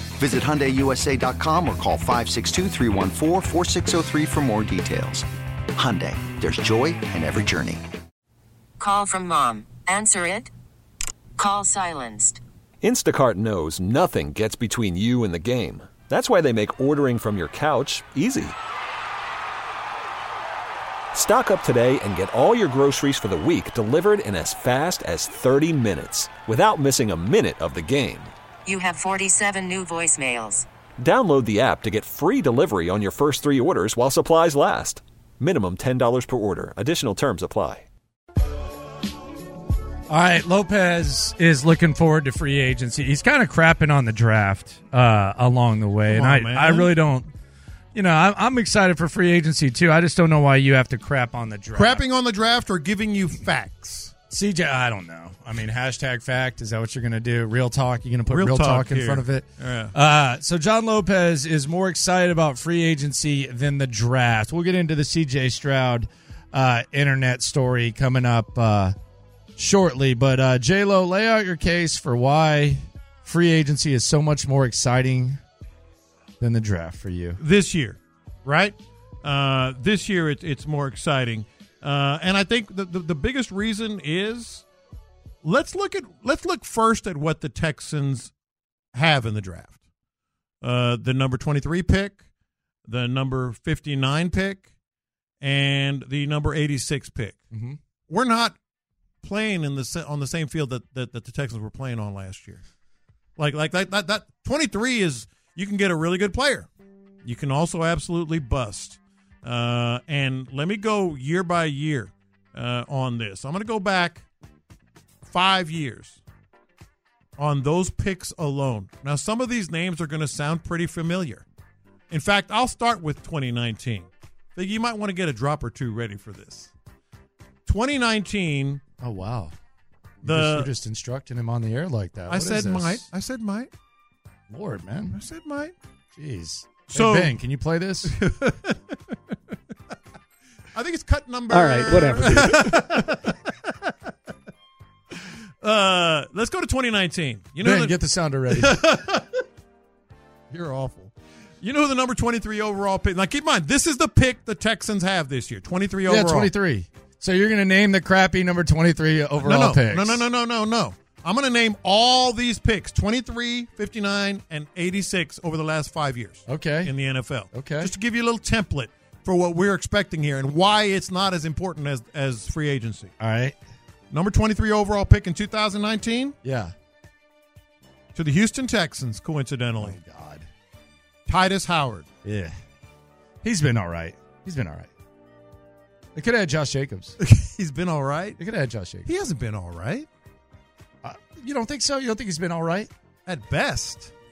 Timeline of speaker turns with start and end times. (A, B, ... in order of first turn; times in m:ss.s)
0:00.2-0:07.8 A
0:08.8-0:10.5 B
0:11.4-0:12.4 B
0:12.8-0:18.6 C
0:21.1-0:28.3 C
0:28.6-0:30.6 B
0:31.0-0:37.8 C
0:40.1-0:47.3 D
0:46.1-0:46.9 E
0:47.9-0:52.0 D
0:51.7-0:54.1 E
0:54.3-1:09.0 D
0:58.3-0:59.9 E
1:09.6-1:15.4 D
1:16.4-1:17.4 D
1:17.4-1:24.6 E
1:25.4-1:28.3 E
1:28.9-1:29.8 E
1:30.6-1:32.2 E
1:32.9-1:34.6 E
1:35.4-1:37.4 E
1:37.5-1:37.8 D
1:38.1-1:38.5 E
1:39.2-1:42.6 E
1:43.4-1:46.7 E
1:47.2-1:54.2 E
1:55.3-1:56.2 E
1:57.4-2:01.4 E
2:02.1-2:06.7 E
2:07.6-2:08.8 E
2:09.0-2:09.5 D
2:10.2-2:10.7 E
2:10.2-2:13.0 D
2:12.3-2:13.7 E
2:14.5-2:15.2 D
2:15.1-2:15.7 E
2:16.1-2:18.1 D
2:16.9-2:17.4 E
2:18.0-2:19.0 E
2:20.7-2:23.9 E
2:21.5-2:23.2 D
2:25.6-2:28.0 E
2:27.6-2:28.8 D
2:28.5-2:29.4 E
2:30.5-2:36.5 E
2:36.0-2:40.2 D
2:39.4-2:53.1 E
2:46.5-2:46.9 D
2:47.5-2:47.9 D
2:53.2-2:53.6 D
2:54.1-2:56.3 E
2:56.4-2:56.7 D
2:58.1-3:00.0 E
2:59.8-3:00.5 D
3:01.3-3:02.0 E
3:02.2-3:02.5 D
3:03.4-3:04.9 D
3:06.1-3:07.2 D
3:07.2-3:08.4 E
3:08.4-3:09.1 D
3:09.0-3:10.1 E
3:11.0-3:12.9 D
3:13.2-3:14.1 E